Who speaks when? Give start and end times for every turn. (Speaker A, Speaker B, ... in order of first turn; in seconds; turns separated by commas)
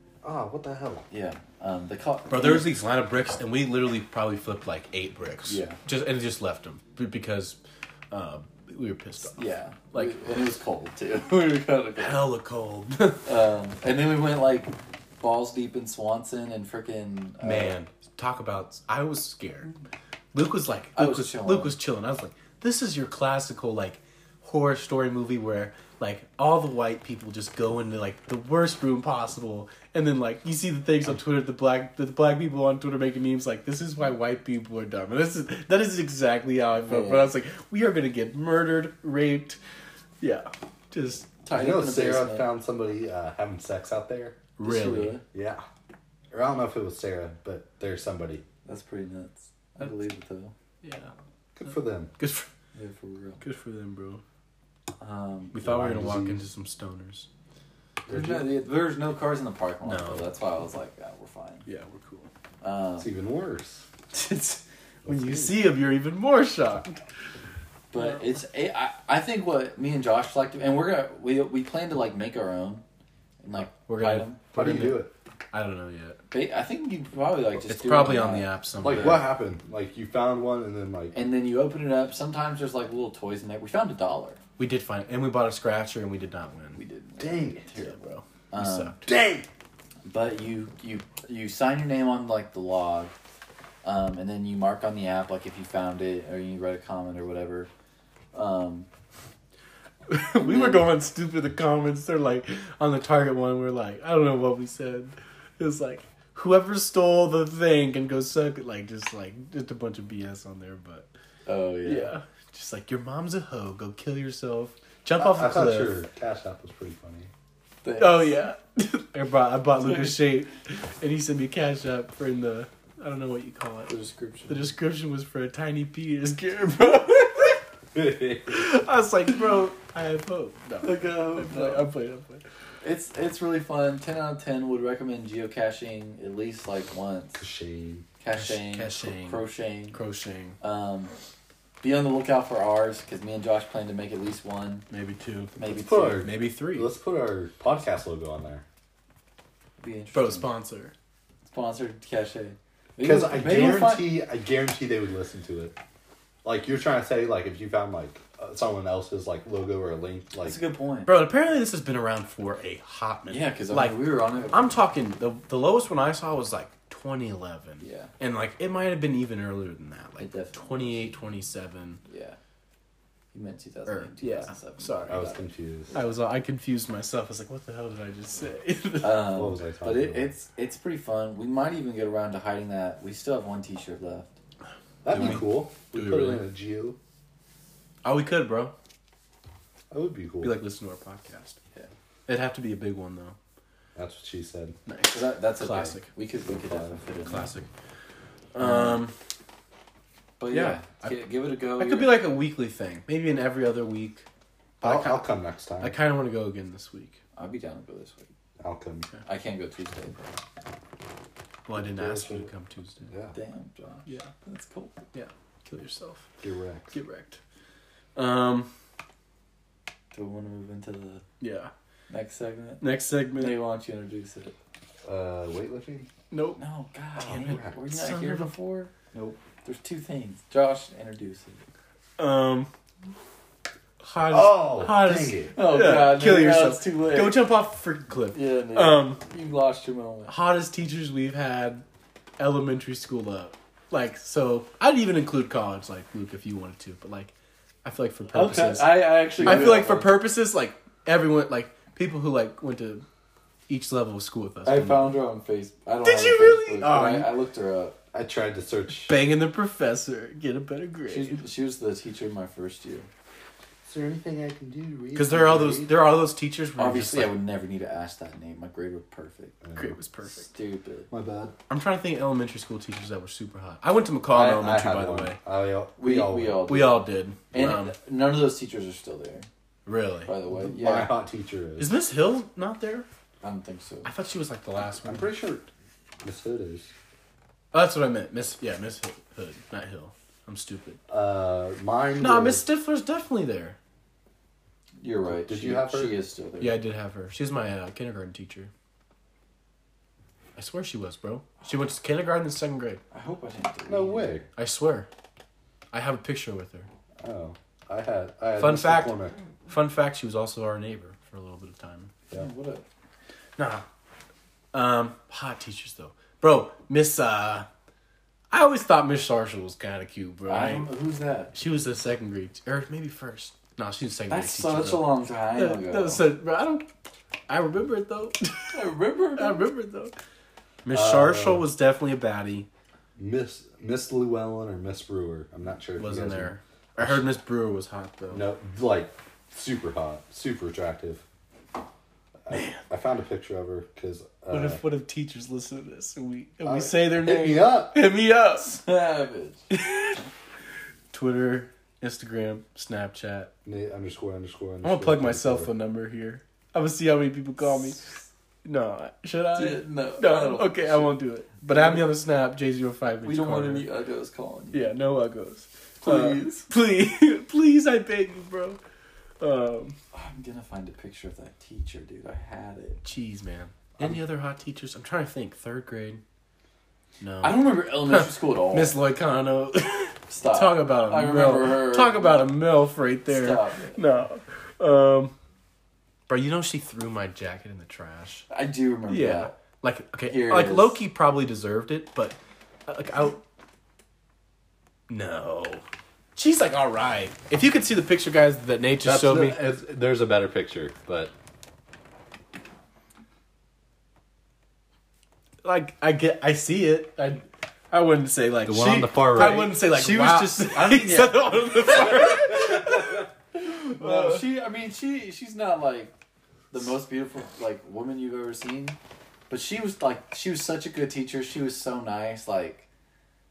Speaker A: 0.2-1.1, Speaker B: 1.1-2.8, Speaker C: 2.3-7.6, Speaker B: 5.5-5.8, Speaker C: 8.1-10.2, Speaker B: 9.3-12.2, Speaker C: 12.0-13.3, Speaker B: 13.2-17.8, Speaker C: 17.4-19.7, Speaker C: 20.3-39.6, Speaker B: 20.9-21.8, Speaker B: 36.8-37.3, Speaker C: 40.2-41.3, Speaker B: 41.5-42.5, Speaker A: 41.5-44.4, Speaker C: 44.6-45.2, Speaker B: 44.6-45.2, Speaker A: 45.3-45.6, Speaker A: 46.3-48.5, Speaker B: 48.6-50.5, Speaker C: 50.8-51.1, Speaker A: 51.5-52.1, Speaker C: 52.2-52.5, Speaker B: 52.7-53.4, Speaker C: 53.4-54.2, Speaker B: 55.0-55.6, Speaker C: 55.5-57.3, Speaker A: 55.6-56.4, Speaker A: 58.1-58.5, Speaker B: 58.1-61.6, Speaker C: 59.9-60.2, Speaker C: 61.7-62.3, Speaker B: 62.6-63.1, Speaker A: 63.0-63.9, Speaker C: 64.1-67.0, Speaker A: 65.0-65.6, Speaker B: 67.9-72.8, Speaker B: 73.4-74.4, Speaker C: 73.7-76.2, Speaker A: 74.5-75.1, Speaker B: 76.3-79.2, Speaker C: 77.7-79.2, Speaker A: 78.8-81.2, Speaker B: 81.1-84.4, Speaker C: 84.6-86.8, Speaker B: 86.8-89.0, Speaker A: 87.2-87.7, Speaker C: 87.8-89.1, Speaker A: 89.0-89.5, Speaker B: 90.0-93.1, Speaker B: 93.8-97.7, Speaker B: 98.3-98.9, Speaker C: 100.1-111.1, Speaker B: 100.4-100.8, Speaker B: 111.5-112.1, Speaker C: 111.8-115.9, Speaker A: 115.2-117.3, Speaker B: 117.8-118.4, Speaker C: 118.0-123.9, Speaker B: 123.9-124.7, Speaker C: 124.5-127.6, Speaker A: 127.9-128.7, Speaker C: 128.5-132.4, Speaker B: 130.8-131.9, Speaker B: 132.8-137.4, Speaker A: 137.4-138.1, Speaker B: 138.2-140.0, Speaker C: 138.3-140.6, Speaker B: 140.6-141.1, Speaker B: 141.8-144.9, Speaker C: 144.9-145.6, Speaker B: 145.6-146.2, Speaker A: 145.7-148.6, Speaker C: 146.2-146.9, Speaker B: 149.8-150.5, Speaker C: 150.1-150.9, Speaker B: 151.5-154.1, Speaker A: 153.0-155.8, Speaker A: 156.4-160.6, Speaker B: 160.4-161.1, Speaker C: 161.1-172.0, Speaker B: 163.3-164.7, Speaker B: 167.8-168.1, Speaker B: 170.2-171.1, Speaker B: 172.1-172.4, Speaker B: 173.3-176.0, Speaker C: 173.9-175.2, Speaker A: 175.1-175.9, Speaker C: 175.9-179.4, Speaker B: 179.0-184.4, Speaker A: 179.3-180.3, Speaker A: 185.0-187.0, Speaker C: 185.1-186.4, Speaker C: 188.0-188.7, Speaker A: 189.9-190.6, Speaker C: 190.4-191.6, Speaker C: 192.3-193.4, Speaker A: 194.0-194.8, Speaker C: 194.9-196.1, Speaker B: 195.1-197.5, Speaker A: 196.5-197.0, Speaker C: 197.2-197.7, Speaker C: 198.5-199.2, Speaker B: 198.6-199.0, Speaker B: 200.4-202.2, Speaker C: 200.5-201.2, Speaker C: 201.8-204.3, Speaker C: 204.8-205.3, Speaker A: 204.8-206.0, Speaker C: 205.8-207.2, Speaker B: 207.3-208.3, Speaker A: 208.6-209.1, Speaker B: 209.2-210.4, Speaker C: 211.7-213.1, Speaker A: 211.8-212.5, Speaker A: 213.1-213.3, Speaker B: 213.3-215.0, Speaker C: 215.1-216.3, Speaker A: 216.4-217.0, Speaker C: 216.9-217.4, Speaker C: 218.2-218.7, Speaker B: 220.1-221.2, Speaker C: 221.4-221.7, Speaker B: 222.1-222.8, Speaker C: 222.8-223.6, Speaker B: 223.3-224.6, Speaker A: 225.1-226.1, Speaker C: 226.3-226.6, Speaker B: 226.6-228.9, Speaker C: 227.2-228.5, Speaker A: 227.4-227.8, Speaker A: 229.1-229.4, Speaker B: 229.6-231.6, Speaker C: 232.2-232.7, Speaker C: 234.0-239.2, Speaker A: 234.3-235.5, Speaker B: 235.6-237.4, Speaker B: 238.3-240.3, Speaker C: 240.3-241.8, Speaker C: 242.4-247.3, Speaker C: 247.8-253.1, Speaker B: 248.3-250.2, Speaker A: 249.4-249.7, Speaker C: 253.7-255.2, Speaker B: 254.7-258.0, Speaker C: 256.0-257.3, Speaker A: 258.1-259.2, Speaker C: 259.1-261.4, Speaker B: 261.1-263.1, Speaker A: 263.9-266.0, Speaker C: 265.1-267.4, Speaker B: 266.8-269.6, Speaker A: 269.6-270.0, Speaker C: 269.8-270.5, Speaker B: 270.3-271.1, Speaker A: 271.1-271.6, Speaker C: 271.7-275.4, Speaker A: 274.3-276.7, Speaker B: 276.0-279.5, Speaker C: 276.7-277.9, Speaker C: 279.9-280.3, Speaker B: 280.3-281.1, Speaker A: 280.5-281.9, Speaker C: 281.8-283.1, Speaker B: 283.4-284.1, Speaker C: 284.1-285.3, Speaker A: 285.0-285.7, Speaker A: 286.2-286.9, Speaker C: 287.7-291.0, Speaker A: 291.1-292.6, Speaker C: 292.2-293.8, Speaker B: 295.0-296.8, Speaker A: 295.3-296.1, Speaker C: 296.6-298.7, Speaker C: 300.6-303.0, Speaker B: 303.1-304.4, Speaker A: 303.9-304.5, Speaker C: 304.6-305.1, Speaker C: 305.9-306.9, Speaker A: 307.2-309.4, Speaker C: 308.6-309.2, Speaker C: 309.7-312.1, Speaker B: 312.3-312.9, Speaker C: 313.6-313.9, Speaker C: 314.7-317.7, Speaker C: 318.5-320.9, Speaker B: 320.5-321.5, Speaker C: 321.5-326.9, Speaker B: 324.3-326.2, Speaker C: 327.5-328.8, Speaker B: 328.7-329.7, Speaker C: 329.4-330.1, Speaker C: 330.9-332.7, Speaker A: 330.9-331.7, Speaker A: 333.2-337.3, Speaker C: 336.0-338.5, Speaker A: 338.3-341.2, Speaker A: 342.5-344.8, Speaker C: 342.5-342.8, Speaker C: 344.5-348.8, Speaker A: 346.6-348.0, Speaker B: 348.6-349.6, Speaker C: 349.7-350.2, Speaker C: 351.1-353.5, Speaker A: 353.6-355.7, Speaker C: 354.8-358.0, Speaker C: 358.6-363.9, Speaker B: 359.5-362.1, Speaker B: 363.2-364.9, Speaker C: 364.7-368.8, Speaker B: 366.0-366.7, Speaker C: 369.4-370.0, Speaker B: 370.1-373.0, Speaker C: 373.0-376.2, Speaker C: 377.2-385.4, Speaker B: 377.4-379.0, Speaker B: 380.3-382.5, Speaker B: 383.3-384.0, Speaker C: 386.3-388.5, Speaker B: 388.5-389.5, Speaker C: 389.1-393.4, Speaker B: 390.3-391.0, Speaker C: 395.1-395.8, Speaker C: 396.4-399.6, Speaker A: 399.0-401.3, Speaker C: 405.6-414.5, Speaker A: 408.7-409.7, Speaker B: 409.4-416.1, Speaker B: 416.7-419.0, Speaker B: 419.5-422.9